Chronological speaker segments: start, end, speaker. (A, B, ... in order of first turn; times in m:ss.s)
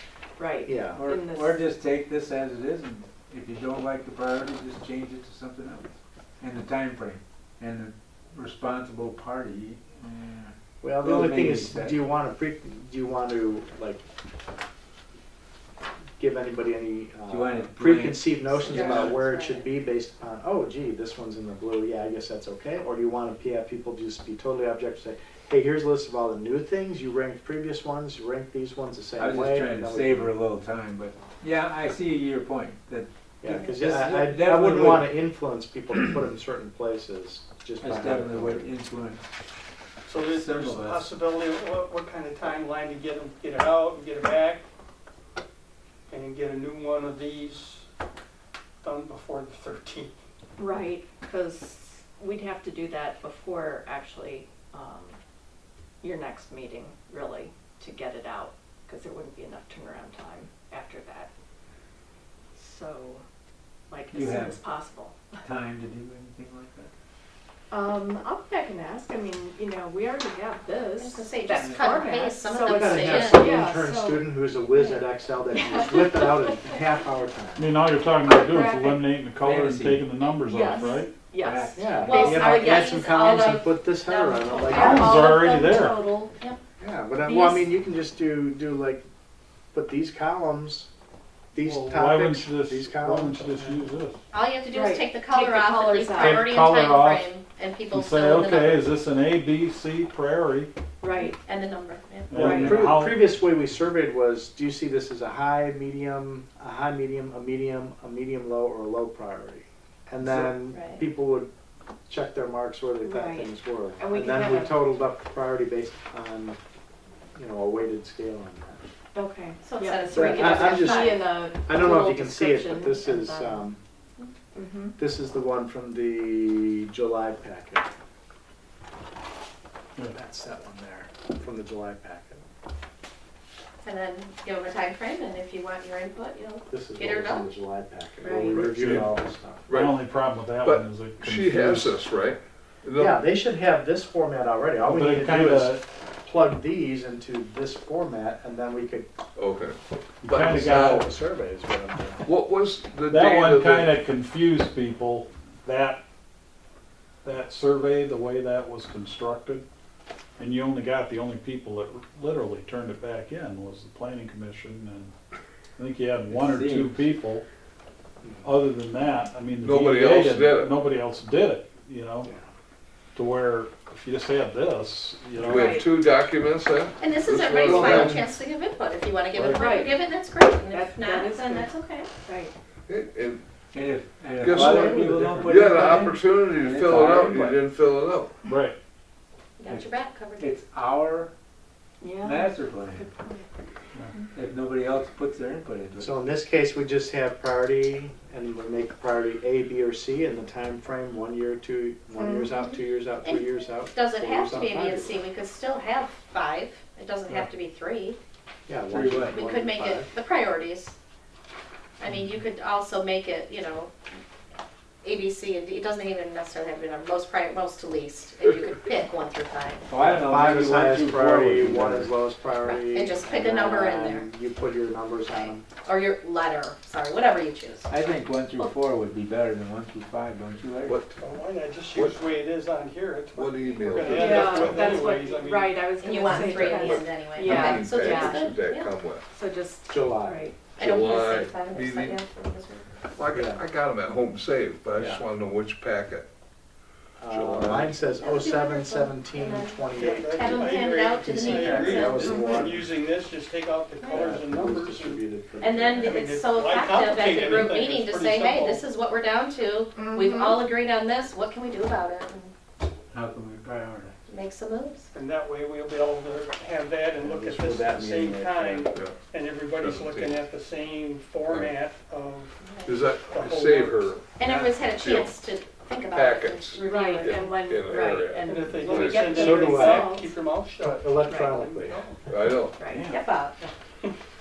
0:00.4-0:01.6 A
0:00.6-0:01.0 B
0:01.0-0:12.0 C
0:10.8-0:14.0 B
0:16.2-0:30.3 B
0:17.3-0:19.2 C
0:18.6-0:19.7 D
0:29.2-0:35.1 C
0:33.4-0:38.7 B
0:37.8-0:39.3 C
0:40.0-0:44.6 E
0:40.3-0:41.1 C
0:46.1-0:47.9 E
0:48.8-0:50.2 E
0:50.6-0:55.2 A
0:56.0-1:01.3 A
1:02.6-1:03.2 A
1:03.9-1:05.4 A
1:04.1-1:04.6 C
1:05.4-1:06.9 C
1:07.7-1:16.8 A
1:11.0-1:13.6 D
1:12.6-1:17.7 B
1:17.6-1:21.1 F
1:18.3-1:19.1 A
1:19.4-1:20.1 C
1:20.4-1:23.8 A
1:21.4-1:22.3 C
1:21.8-1:25.3 B
1:22.1-1:25.0 D
1:24.6-1:26.3 A
1:24.7-1:26.0 F
1:26.8-1:29.0 B
1:27.2-1:27.7 A
1:29.7-1:30.9 B
1:31.5-1:33.7 B
1:31.6-1:34.2 F
1:34.3-1:38.8 D
1:34.7-1:36.5 A
1:36.2-1:37.3 F
1:37.9-1:40.7 F
1:41.0-1:41.4 A
1:41.1-1:42.4 D
1:42.3-1:43.4 F
1:42.4-1:42.8 A
1:42.4-1:51.5 B
1:50.6-1:51.0 D
1:52.1-1:56.6 B
1:53.0-1:54.8 A
1:57.3-1:58.8 B
1:59.1-2:03.7 A
1:59.6-2:01.2 D
2:00.1-2:03.8 B
2:04.6-2:05.0 A
2:05.0-2:07.9 B
2:10.1-2:12.4 B
2:13.8-2:17.5 D
2:16.7-2:19.6 B
2:18.2-2:18.6 D
2:18.6-2:19.1 G
2:18.7-2:19.1 F
2:19.7-2:20.0 G
2:19.7-2:22.0 F
2:20.6-2:23.2 G
2:23.0-2:29.1 B
2:24.8-2:25.8 F
2:29.4-2:31.0 G
2:30.2-2:31.1 F
2:30.3-2:32.3 B
2:32.2-2:34.0 G
2:33.1-2:36.0 F
2:37.2-2:39.6 F
2:40.4-2:45.1 F
2:45.8-2:47.4 F
2:46.3-2:47.0 C
2:48.4-2:52.3 F
2:49.6-2:50.7 G
2:53.1-2:55.8 F
2:55.4-2:58.2 G
2:55.5-2:55.9 A
2:57.0-3:02.1 D
2:57.6-2:58.2 F
2:59.3-2:59.7 F
2:59.5-3:00.0 A
3:00.7-3:02.5 A
3:02.9-3:03.4 G
3:03.7-3:07.6 C
3:04.4-3:08.3 G
3:04.5-3:06.0 B
3:05.1-3:05.5 F
3:08.4-3:08.8 F
3:09.6-3:10.5 D
3:09.7-3:11.3 C
3:12.0-3:13.4 A
3:12.2-3:13.1 C
3:14.3-3:16.2 C
3:16.0-3:25.2 B
3:22.2-3:22.5 A
3:23.2-3:28.2 D
3:28.7-3:30.1 B
3:28.9-3:29.4 C
3:29.2-3:30.9 D
3:32.0-3:34.0 D
3:35.0-3:39.8 D
3:39.9-3:42.1 C
3:40.0-3:45.7 B
3:42.6-3:44.3 D
3:45.3-3:47.9 D
3:47.9-3:51.0 C
3:50.8-3:51.2 G
3:51.2-3:55.8 E
3:51.9-3:52.2 G
3:53.3-3:54.4 G
3:54.1-3:58.4 A
3:54.3-3:54.8 C
3:56.0-3:58.9 D
3:56.5-3:59.2 G
3:59.3-4:00.5 A
3:59.9-4:00.5 B
4:00.7-4:02.1 G
4:00.8-4:02.9 D
4:03.2-4:06.2 G
4:03.3-4:03.6 B
4:04.9-4:05.2 B
4:07.2-4:12.9 B
4:07.3-4:08.1 G
4:08.2-4:12.4 D
4:09.9-4:15.2 E
4:12.2-4:12.7 A
4:14.1-4:16.2 B
4:15.6-4:22.5 D
4:16.0-4:18.8 E
4:20.0-4:20.6 A
4:23.1-4:24.1 C
4:24.3-4:25.1 D
4:25.1-4:34.8 E
4:27.2-4:28.9 B
4:29.7-4:30.4 G
4:31.5-4:31.8 G
4:32.6-4:32.9 D
4:32.8-4:34.3 G
4:34.4-4:37.6 D
4:34.9-4:35.5 G
4:36.1-4:39.5 G
4:36.8-4:40.3 A
4:38.4-4:42.3 E
4:39.3-4:40.1 B
4:40.8-4:42.1 B
4:41.3-4:41.6 A
4:42.3-4:42.8 G
4:42.8-4:43.1 A
4:42.8-4:43.2 F
4:43.1-4:43.6 D